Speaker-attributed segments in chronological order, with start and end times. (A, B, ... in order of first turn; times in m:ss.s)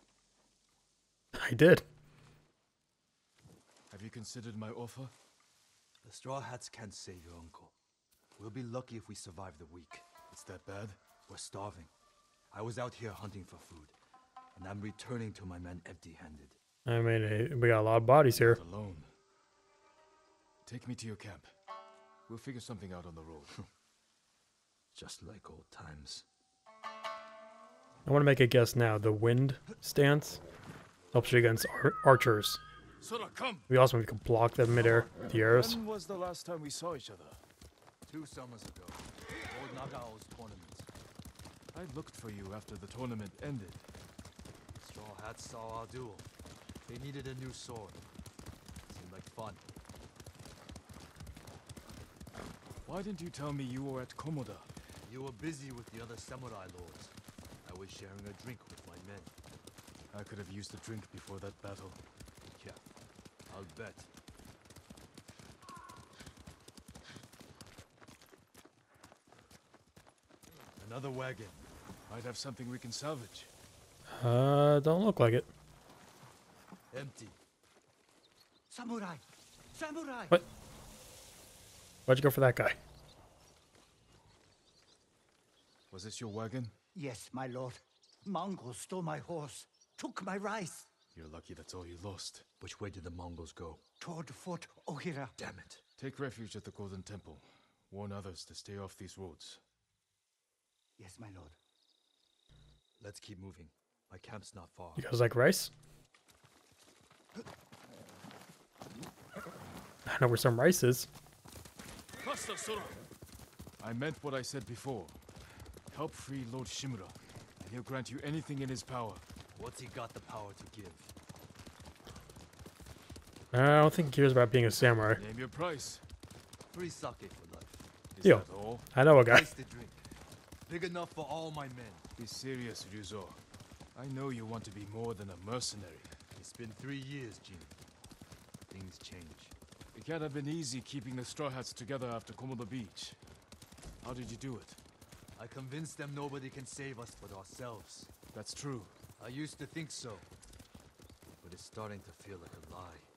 0:01.3-0:01.8 A
0:03.9-0:05.1 B
0:06.0-0:07.7 C
0:08.4-0:10.1 C
0:10.3-0:11.0 B
0:11.3-0:11.9 C
0:12.5-0:13.9 C
0:14.5-0:16.6 C
0:16.8-0:18.6 A
0:18.3-0:19.1 B
0:20.6-0:21.5 B
0:22.3-0:23.7 B
0:24.9-0:26.3 C
0:28.0-0:30.4 A
0:31.1-0:32.6 A
0:33.0-0:33.7 B
0:33.7-0:35.8 A
0:34.8-0:37.4 B
0:38.0-0:40.9 C
0:41.7-0:43.9 B
0:44.8-0:46.3 C
0:46.9-0:48.0 C
0:48.9-0:49.7 C
0:52.8-0:54.7 B
0:55.0-0:57.1 C
0:57.6-0:59.3 C
1:00.1-1:02.0 B
1:03.5-1:04.1 C
1:10.8-1:11.6 C
1:12.1-1:13.5 B
1:14.1-1:15.5 A
1:16.9-1:17.4 C
1:18.7-1:20.4 D
1:22.1-1:22.8 A
1:25.9-1:26.8 B
1:26.9-1:30.9 D
1:31.1-1:32.4 B
1:32.6-1:33.8 C
1:34.0-1:35.4 D
1:35.4-1:35.8 C
1:36.0-1:39.6 B
1:41.0-1:41.6 D
1:43.0-1:45.0 C
1:45.0-1:45.7 A
1:50.0-1:51.1 A
1:52.2-1:53.0 B
1:53.8-1:55.2 B
1:55.8-1:59.2 B
1:59.5-2:01.1 C
2:03.5-2:05.2 A
2:05.1-2:06.0 B
2:06.7-2:07.9 C
2:08.1-2:08.9 B
2:08.2-2:09.5 A
2:09.2-2:10.0 C
2:10.6-2:12.0 C
2:12.2-2:13.4 B
2:13.9-2:16.1 B
2:16.4-2:17.8 C
2:18.7-2:19.5 C
2:19.9-2:23.2 B
2:24.0-2:24.8 B
2:25.4-2:28.1 C
2:28.3-2:29.0 B
2:29.2-2:30.3 C
2:31.4-2:33.1 C